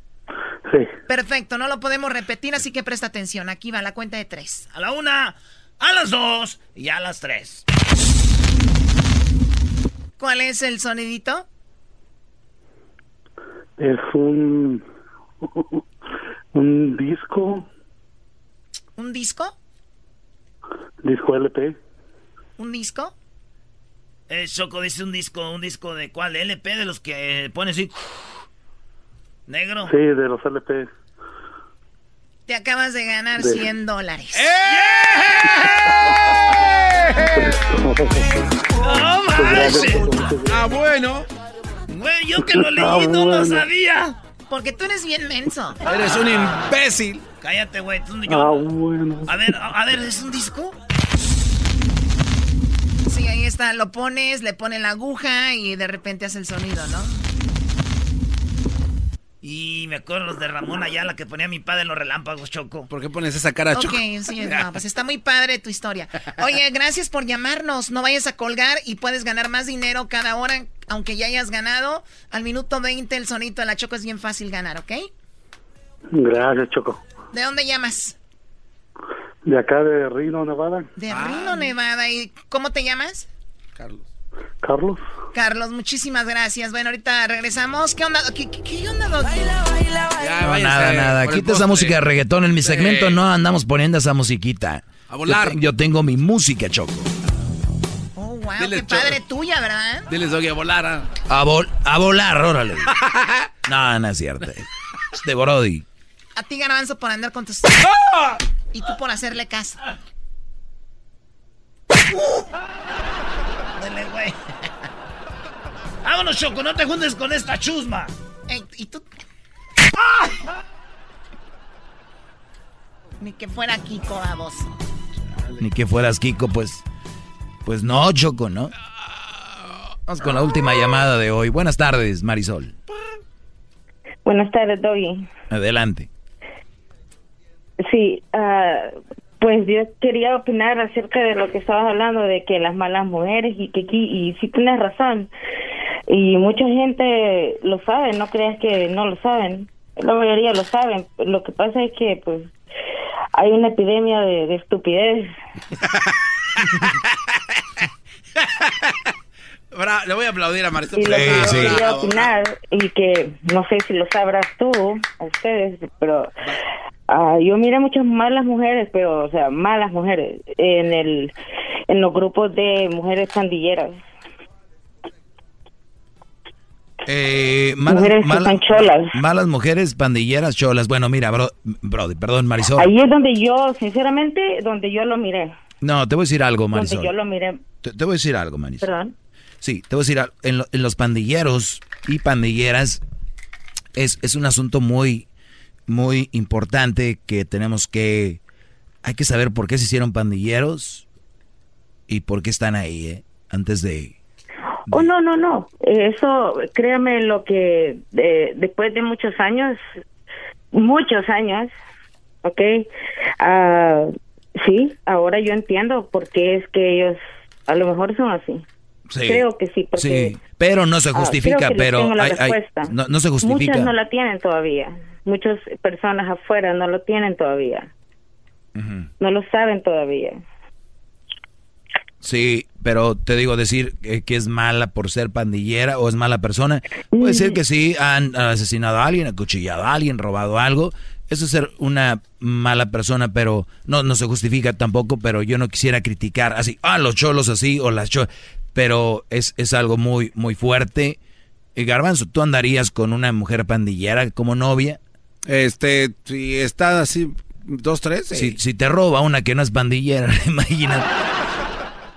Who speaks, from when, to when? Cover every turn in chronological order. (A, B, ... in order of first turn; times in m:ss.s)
0:01.1-0:04.7 A
0:04.7-0:07.6 B
0:10.2-0:11.4 A
0:13.8-0:14.8 C
0:16.5-0:17.7 C
0:19.0-0:19.5 A
0:21.0-0:21.8 C
0:22.6-0:23.1 A
0:24.3-0:28.2 B
0:29.5-0:29.9 B
0:29.8-0:30.9 C
0:32.5-0:34.5 A
0:34.3-0:37.5 D
0:35.8-0:36.1 C
0:37.3-0:38.3 C
0:38.8-0:40.3 B
0:39.3-0:40.6 C
0:40.5-0:41.3 D
0:41.9-0:44.2 B
0:42.4-0:43.6 C
0:44.5-0:45.8 A
0:45.8-0:47.2 D
0:47.4-0:48.7 B
0:48.3-0:49.5 C
0:49.3-0:50.7 B
0:53.1-0:57.2 A
0:59.4-1:02.9 B
1:02.9-1:04.6 D
1:03.7-1:15.1 A
1:16.1-1:17.0 C
1:17.3-1:18.1 A
1:19.4-1:20.9 C
1:21.0-1:23.3 A
1:21.1-1:21.7 D
1:23.8-1:24.1 D
1:24.6-1:25.0 C
1:25.3-1:29.6 A
1:30.2-1:32.0 D
1:30.4-1:37.1 E
1:32.6-1:33.2 D
1:35.1-1:35.6 D
1:38.2-1:40.1 A
1:38.6-1:39.2 D
1:40.1-1:41.1 D
1:41.3-1:42.9 E
1:42.9-1:43.5 D
1:43.6-1:45.8 E
1:46.4-1:47.8 A
1:47.8-1:48.4 D
1:48.7-1:49.8 A
1:53.8-1:54.4 B
1:56.0-1:58.1 B
1:58.5-1:59.1 A
2:03.2-2:04.7 A
2:05.6-2:06.8 E
2:07.6-2:08.7 E
2:10.1-2:12.7 E
2:14.2-2:15.3 F
2:15.5-2:16.1 E
2:17.8-2:25.3 F
2:26.1-2:32.5 F
2:33.3-2:35.3 F
2:36.7-2:37.1 D
2:38.4-2:38.9 D
2:39.7-2:42.3 D
2:40.9-2:46.5 F
2:41.0-2:41.9 E
2:47.1-2:51.3 F
2:51.9-2:54.0 F
2:57.0-3:02.9 E
2:57.9-2:59.2 F
3:02.8-3:05.5 F
3:05.8-3:07.1 E
3:06.7-3:07.6 F
3:07.8-3:08.9 E
3:08.8-3:09.1 F
3:09.6-3:13.0 E
3:14.0-3:15.3 E
3:15.9-3:18.4 E
3:19.0-3:21.0 E
3:22.1-3:24.2 E
3:24.9-3:29.8 F
3:30.7-3:31.7 F
3:32.4-3:32.9 F
3:33.4-3:38.6 F
3:39.1-3:43.9 E
3:39.2-3:40.4 F
3:41.1-3:47.9 F
3:48.8-3:49.1 E
3:49.2-3:50.4 F
3:52.2-4:11.2 E
3:57.2-3:57.6 F
4:11.7-4:15.0 E
4:15.5-4:18.6 D
4:18.3-4:21.1 E